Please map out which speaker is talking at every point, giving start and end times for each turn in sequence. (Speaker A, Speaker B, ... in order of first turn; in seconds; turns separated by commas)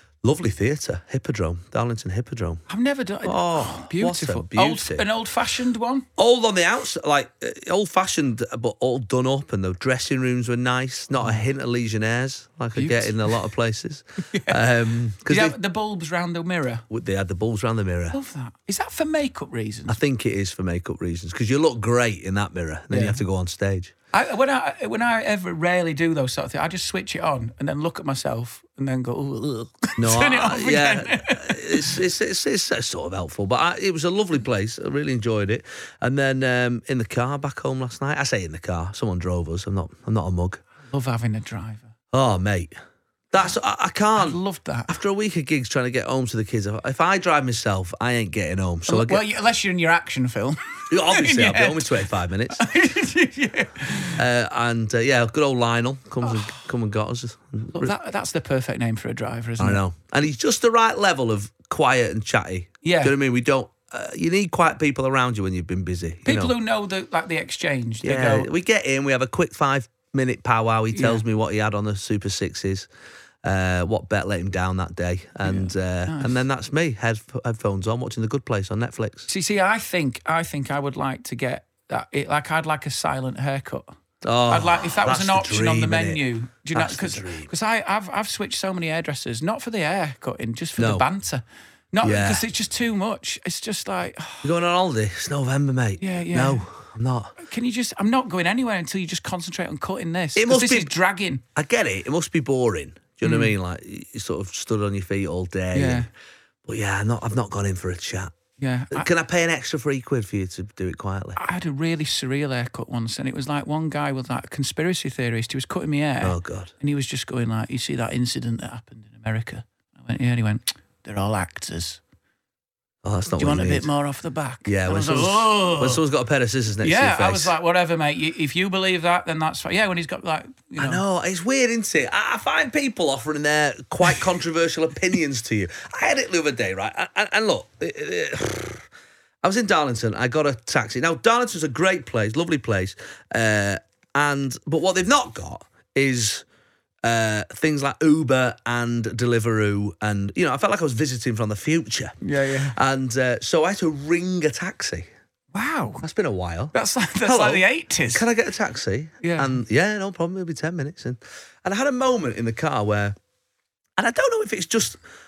Speaker A: 0.2-2.6, Speaker B: 2.7-6.1, Speaker A: 3.2-5.1, Speaker A: 6.2-15.6, Speaker B: 11.2-11.4, Speaker B: 12.8-13.3, Speaker B: 14.3-14.6, Speaker B: 15.3-16.8, Speaker A: 16.9-18.2, Speaker B: 18.1-20.0, Speaker A: 19.9-23.9, Speaker B: 22.9-23.2, Speaker B: 24.1-32.0, Speaker A: 30.0-40.6, Speaker B: 40.9-41.9, Speaker A: 42.1-42.7, Speaker A: 43.3-49.2, Speaker B: 44.2-44.9, Speaker B: 48.9-54.2, Speaker A: 50.9-52.6, Speaker A: 54.2-57.9, Speaker B: 56.2-56.6, Speaker B: 57.7-59.8, Speaker A: 59.6-66.5, Speaker B: 62.8-63.1, Speaker B: 66.2-68.5, Speaker A: 68.0-72.9, Speaker B: 70.9-71.2, Speaker A: 73.4-79.3, Speaker B: 75.4-76.4, Speaker B: 79.3-83.9, Speaker A: 84.2-87.5, Speaker B: 84.5-94.5, Speaker A: 90.8-91.1, Speaker A: 92.0-92.5, Speaker A: 94.4-97.3, Speaker B: 96.0-96.7, Speaker B: 97.4-101.4, Speaker A: 100.3-100.9, Speaker A: 101.5-106.1, Speaker B: 103.2-103.5, Speaker B: 105.7-106.1, Speaker A: 106.7-108.3, Speaker B: 108.6-109.1, Speaker A: 108.9-111.4, Speaker B: 111.4-122.0, Speaker A: 116.2-116.7, Speaker A: 123.0-123.9, Speaker B: 123.4-126.0, Speaker A: 124.7-127.5, Speaker B: 126.8-131.0, Speaker A: 130.8-138.8, Speaker A: 139.4-146.4, Speaker A: 147.0-152.2, Speaker B: 152.2-152.8, Speaker A: 152.7-155.1, Speaker B: 155.5-156.0, Speaker A: 156.0-163.2, Speaker B: 156.7-158.3, Speaker B: 159.2-159.6, Speaker A: 164.0-165.0